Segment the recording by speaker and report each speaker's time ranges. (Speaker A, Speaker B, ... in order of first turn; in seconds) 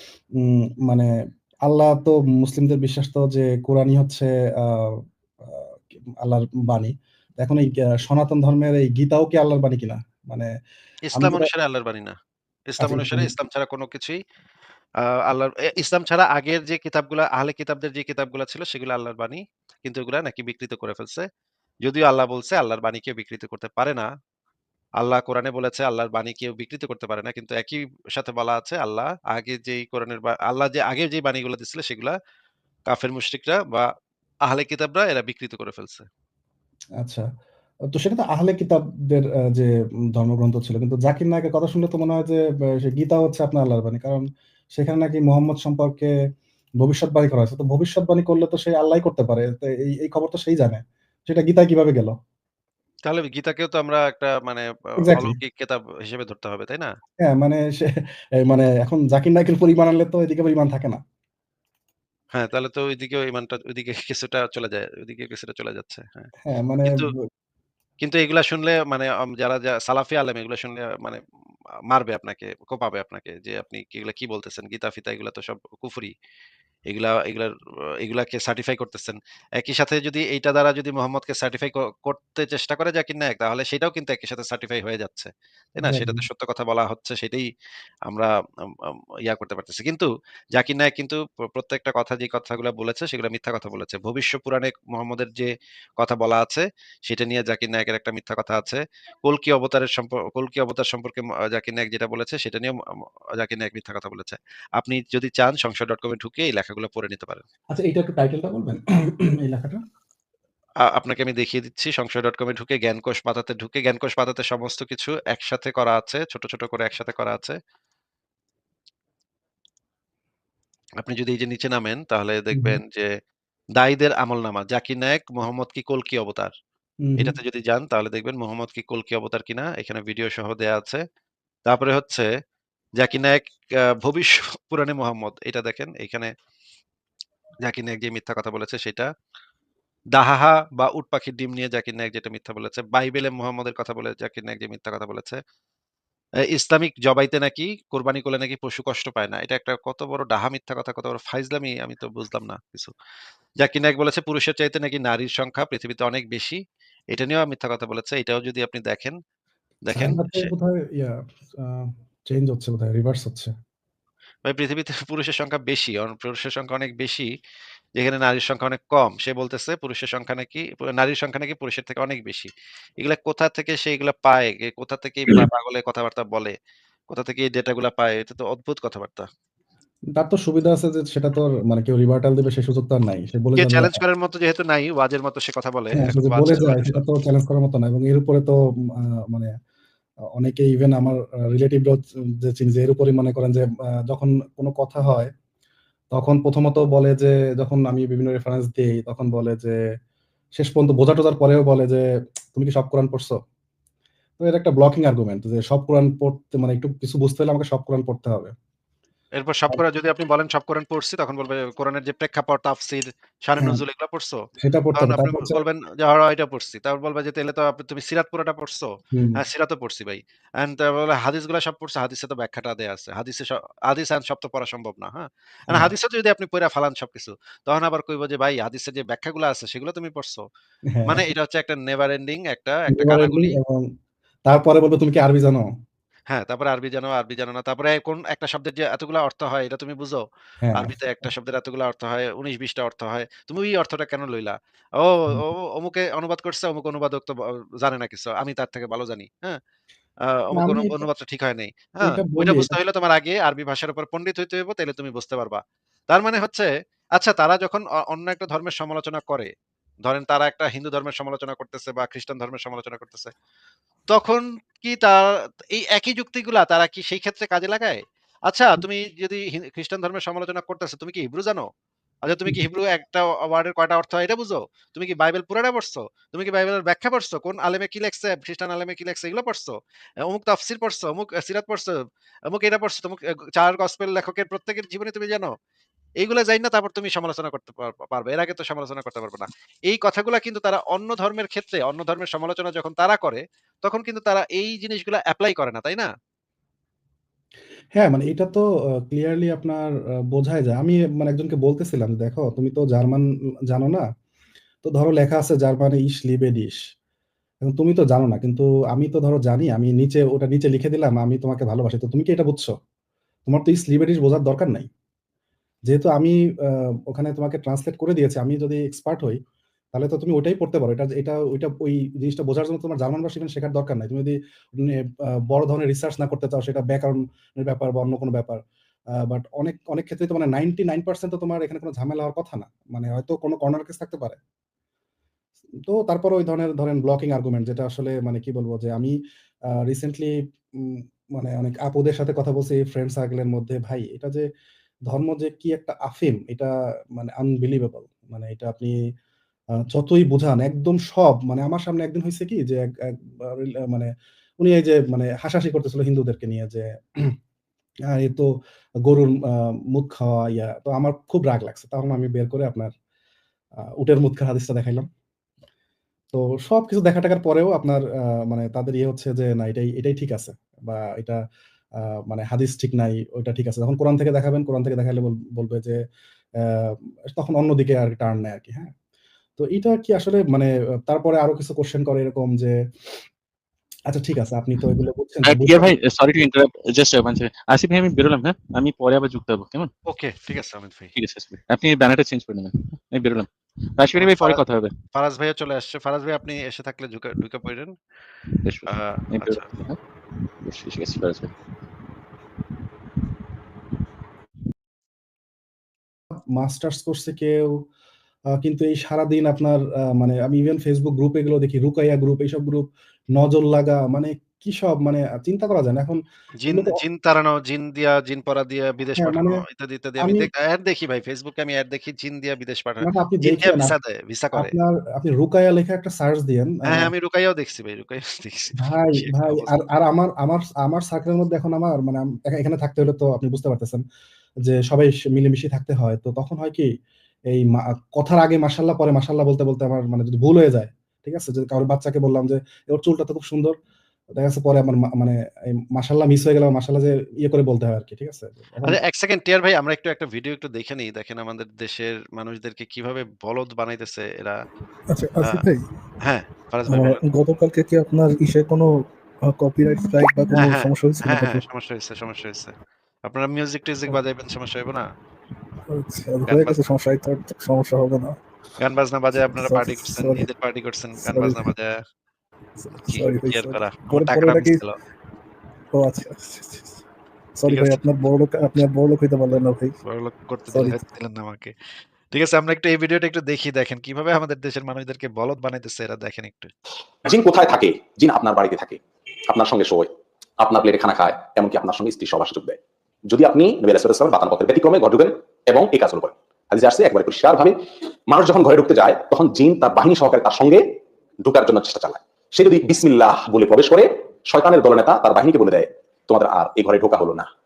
Speaker A: 0.4-1.1, 1.7-4.9, 6.2-10.5, 11.1-11.5, 12.8-13.3, 37.0-37.2, 37.9-44.2, 44.8-46.1, 46.8-52.1, 55.0-55.3, 57.2-61.0, 66.4-67.2, 85.8-86.2, 107.7-109.8, 122.5-122.8, 127.0-127.3, 159.9-163.5, 180.1-184.0, 186.0-189.5, 190.3-195.3, 196.1-199.8, 200.6-203.4, 204.4-208.5, 214.6-215.6, 219.1-219.4, 230.9-231.2, 232.9-233.9, 234.5-235.7, 240.6-240.9, 250.6-251.1, 252.0-252.8, 298.0-304.0, 304.9-306.8, 307.6-312.7, 313.5-314.9, 315.9-319.4, 319.9-328.6, 329.2-334.4, 335.9-339.1, 339.8-344.4, 345.1-348.9, 349.9-354.1, 354.6-357.3, 358.1-358.5, 359.0-362.9, 363.8-365.1, 366.3-371.4, 372.3-376.0, 376.6-378.9, 379.6-382.8, 384.1-385.9, 406.5-407.7, 408.6-416.2, 416.7-417.0, 419.2-419.6, 420.2-420.5, 423.1-423.9, 424.6-427.1, 428.8-434.0, 434.6-436.9, 437.5-443.7, 444.4-445.4, 445.9-449.0
Speaker B: 11.1-12.1, 12.7-14.2, 15.1-21.2, 21.8-24.1, 25.0-32.1, 32.9-33.9, 34.5-36.0, 53.1-56.9, 62.3-66.3, 68.0-71.2, 71.9-76.1, 76.9-87.4, 88.1-102.8, 103.4-107.4, 110.9-117.5, 121.0-123.1, 123.8-126.5, 127.2-131.0, 131.7-132.3, 133.0-136.3, 137.6-139.1, 140.2-145.4, 146.5-152.9, 153.6-156.6, 157.1-159.2, 159.9-160.5, 164.4-167.3, 168.0-176.5, 177.1-179.3, 183.6-187.0, 209.4-214.4, 214.9-218.8, 219.4-230.4, 231.0-233.5, 236.3-240.2, 240.7-249.6, 250.3-255.6, 256.1-259.5, 260.0-263.3, 264.1-271.6, 272.2-281.9, 282.5-285.5, 286.2-296.1, 390.1-391.1, 394.1-397.9, 398.9-399.7, 416.6-424.7, 426.9-429.8, 448.9-454.6, 456.2-457.2, 460.5-462.7, 463.2-465.1, 466.4-466.8, 468.8-471.9, 473.1-474.9, 477.7-478.0, 480.1-481.7, 482.3-486.7
Speaker C: 385.4-389.9, 391.1-394.9, 398.6-400.0, 400.6-401.5
Speaker D: 455.1-455.8, 456.9-461.6, 465.9-468.4, 469.3-470.5, 471.2-471.6, 472.8-474.8, 475.9-477.0, 477.6-479.9, 480.7-481.0
Speaker E: 487.2-497.8, 498.3-500.8, 501.4-507.5